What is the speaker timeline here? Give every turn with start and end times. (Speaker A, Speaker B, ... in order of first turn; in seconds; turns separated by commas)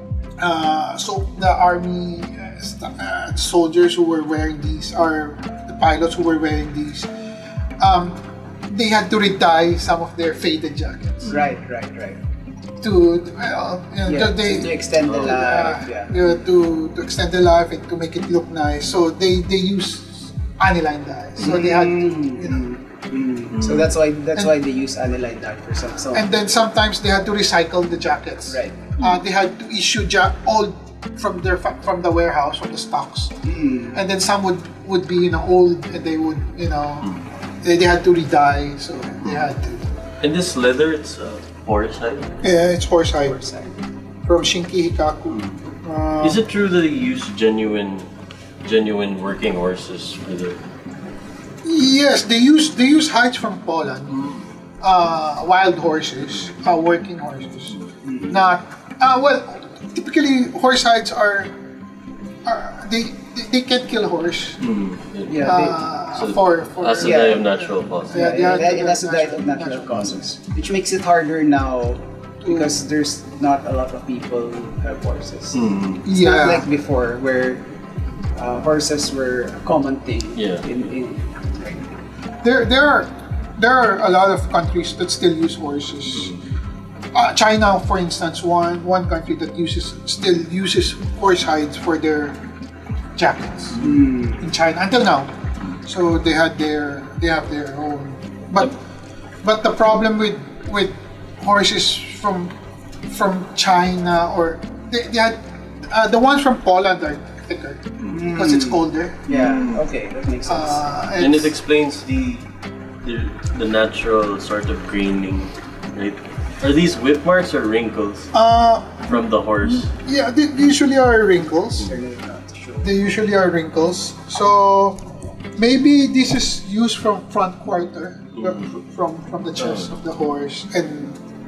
Speaker A: 0.4-7.1, Speaker A: 7.8-11.4, Speaker B: 11.3-12.2, Speaker A: 12.8-22.7, Speaker B: 14.1-16.1, Speaker C: 15.0-15.4, Speaker B: 21.4-26.4, Speaker C: 23.5-23.9, Speaker A: 26.1-33.3, Speaker B: 28.5-28.8, Speaker B: 33.4-34.0, Speaker A: 33.9-37.1, Speaker A: 37.6-39.9, Speaker C: 39.2-39.5, Speaker C: 40.2-42.4, Speaker A: 42.4-43.4, Speaker B: 43.2-43.8, Speaker A: 44.2-46.4, Speaker C: 45.3-45.6, Speaker C: 46.2-48.1, Speaker C: 48.6-50.6, Speaker A: 51.6-57.8, Speaker C: 54.1-54.5, Speaker B: 58.0-58.4, Speaker A: 58.3-61.5, Speaker A: 62.5-64.6, Speaker C: 64.6-68.4, Speaker B: 65.3-65.8, Speaker A: 65.4-70.1, Speaker B: 67.0-67.5, Speaker B: 68.1-77.6, Speaker A: 72.4-72.7, Speaker C: 75.5-76.0, Speaker A: 76.0-76.7, Speaker B: 78.3-81.8, Speaker C: 80.4-80.6, Speaker A: 82.4-86.3, Speaker C: 86.2-86.4, Speaker A: 87.1-92.4, Speaker A: 93.2-93.8, Speaker B: 93.8-94.4, Speaker A: 94.4-98.7, Speaker A: 99.4-102.5, Speaker A: 103.1-109.3, Speaker B: 108.1-110.8, Speaker C: 109.3-109.8, Speaker A: 110.5-111.5, Speaker C: 111.2-112.5, Speaker C: 113.0-118.3, Speaker A: 118.3-121.9, Speaker C: 119.1-119.9, Speaker B: 121.8-122.9, Speaker A: 122.8-125.0, Speaker A: 125.6-131.2, Speaker C: 128.4-128.7, Speaker C: 129.6-129.9